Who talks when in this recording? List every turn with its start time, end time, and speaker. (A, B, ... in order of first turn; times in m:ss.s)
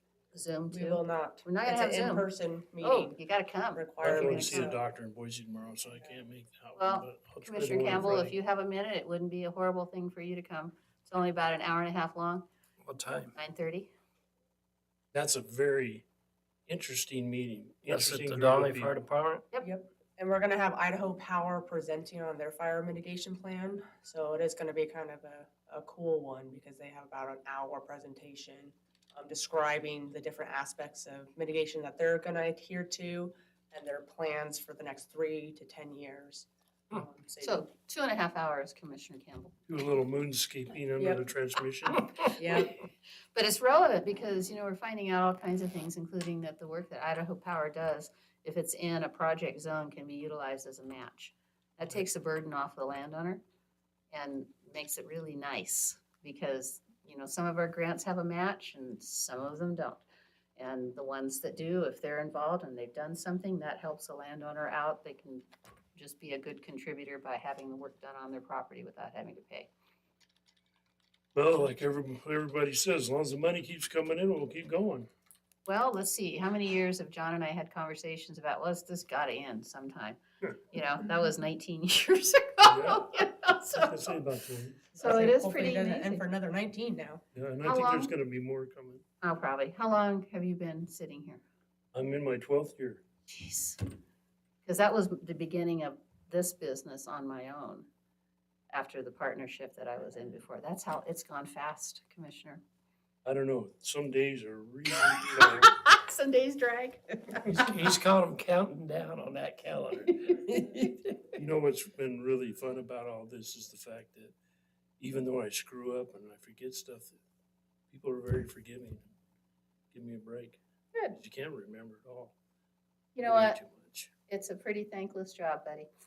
0:00.3-0:02.3 A
0:00.7-0:03.2 B
0:02.8-0:04.7 A
0:03.8-0:04.8 B
0:04.0-0:08.4 C
0:06.8-0:12.4 A
0:12.8-0:13.3 D
0:13.4-0:13.9 A
0:15.1-0:16.0 C
0:16.7-0:19.0 C
0:17.9-0:19.4 D
0:19.6-0:37.7 B
0:37.4-0:39.6 A
0:39.7-0:42.1 C
0:41.0-0:41.3 B
0:42.4-0:42.8 B
0:43.3-0:53.4 A
0:54.1-1:00.0 A
1:00.6-1:09.7 A
1:11.4-1:15.1 C
1:15.6-1:20.2 A
1:20.7-1:24.2 A
1:22.6-1:23.1 C
1:23.7-1:24.9 C
1:25.0-1:27.2 B
1:25.0-1:26.2 A
1:27.3-1:29.0 C
1:27.6-1:28.1 A
1:29.2-1:31.4 A
1:31.9-1:33.0 C
1:33.3-1:33.8 A
1:34.6-1:37.9 A
1:38.7-1:42.6 A
1:43.2-1:45.7 C
1:45.1-1:47.7 A
1:47.4-1:50.2 C
1:49.4-1:49.8 D
1:50.2-1:51.3 A
1:51.4-1:54.3 C
1:55.0-1:57.2 C
1:57.9-1:59.0 C
1:59.9-2:00.6 C
2:01.2-2:02.3 C
2:03.2-2:03.6 A
2:03.2-2:04.1 C
2:04.3-2:05.9 A